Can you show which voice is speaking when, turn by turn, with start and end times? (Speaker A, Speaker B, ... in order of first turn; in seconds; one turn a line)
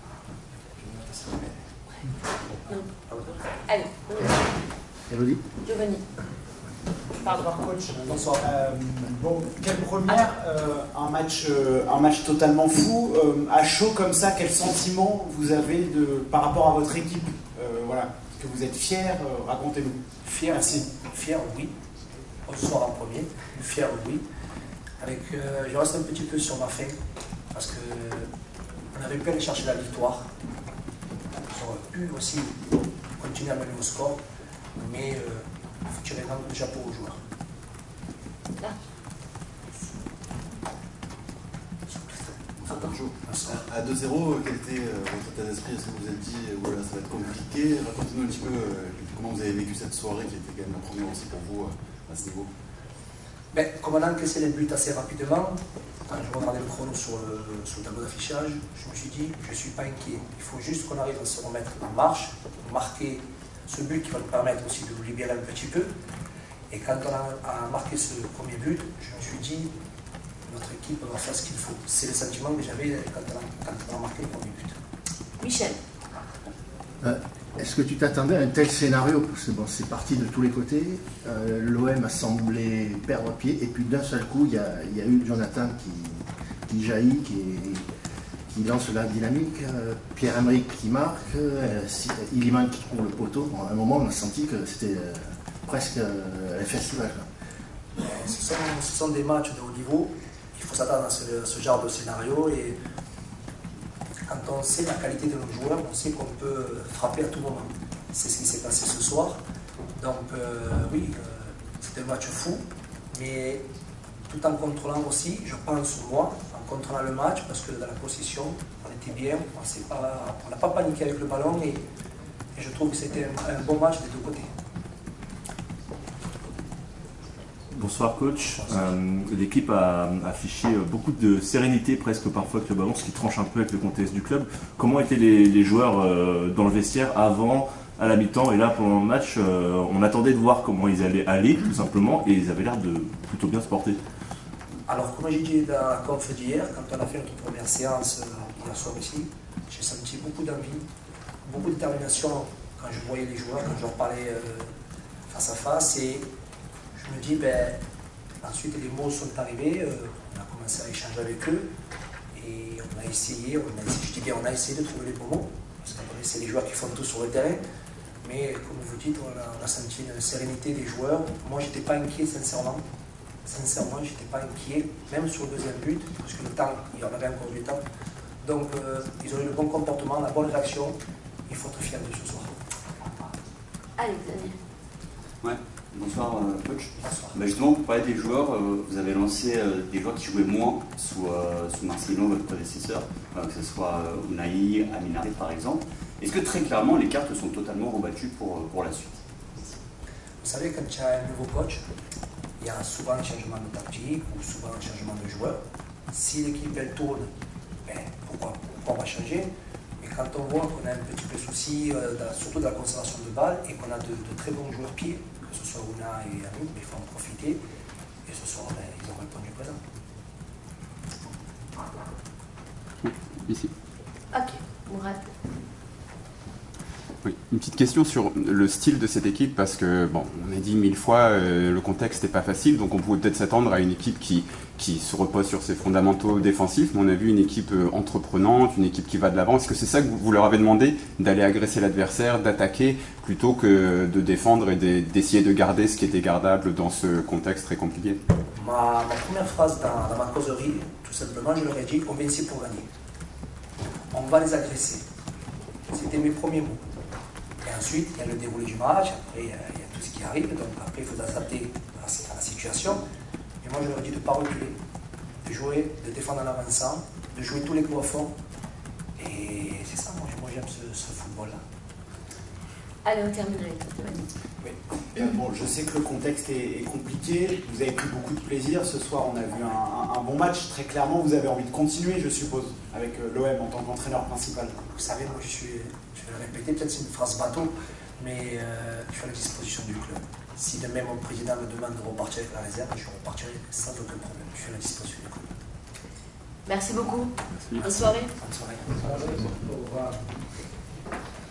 Speaker A: 2.7-4.4
Speaker B: 5.1-5.4
Speaker A: 5.7-6.0
Speaker A: 7.2-7.5
Speaker C: 7.2-20.0
Speaker D: 8.1-8.4
Speaker D: 20.2-21.7
Speaker D: 22.5-24.2
Speaker D: 25.0-26.9
Speaker D: 27.5-28.3
Speaker D: 28.9-30.3
Speaker D: 31.5-32.5
Speaker D: 33.2-34.2
Speaker D: 34.8-37.2
Speaker E: 42.6-52.5
Speaker D: 43.2-43.6
Speaker D: 53.5-65.9
Speaker D: 66.7-69.7
Speaker D: 70.5-74.8
Speaker A: 75.4-75.8
Speaker B: 77.0-87.8
Speaker B: 88.5-97.3
Speaker D: 98.0-102.8
Speaker D: 104.3-109.4
Speaker D: 110.0-112.6
Speaker D: 113.1-113.6
Speaker D: 114.3-121.8
Speaker D: 122.6-124.5
Speaker F: 127.8-144.0
Speaker D: 128.5-128.9
Speaker D: 144.9-150.8
Speaker D: 151.5-154.7
Speaker D: 155.3-156.3
Speaker D: 156.9-157.8
Speaker D: 158.4-161.7
Speaker D: 162.4-167.6
Speaker D: 168.2-172.8
Speaker D: 173.4-177.8
Speaker D: 178.4-181.0
Speaker D: 181.5-182.6
Speaker A: 184.0-184.6
Speaker G: 185.4-199.2
Speaker D: 187.0-187.4
Speaker D: 200.4-201.8
Speaker D: 202.6-205.6
Speaker D: 206.1-207.3
Speaker D: 207.9-209.5
Speaker D: 210.0-217.6
Speaker D: 218.3-219.8
Speaker H: 223.0-223.7
Speaker A: 224.3-225.2
Speaker H: 227.2-248.2
Speaker D: 248.6-252.9
Speaker D: 254.1-255.0
Speaker D: 255.9-256.8
Speaker D: 257.6-263.0
Speaker D: 263.6-264.8
Speaker D: 265.4-268.3
Speaker D: 269.2-271.6
Speaker A: 273.1-274.2
Speaker C: 274.6-284.8
Speaker D: 284.9-295.5
Speaker A: 296.7-298.3
Speaker D: 298.4-299.5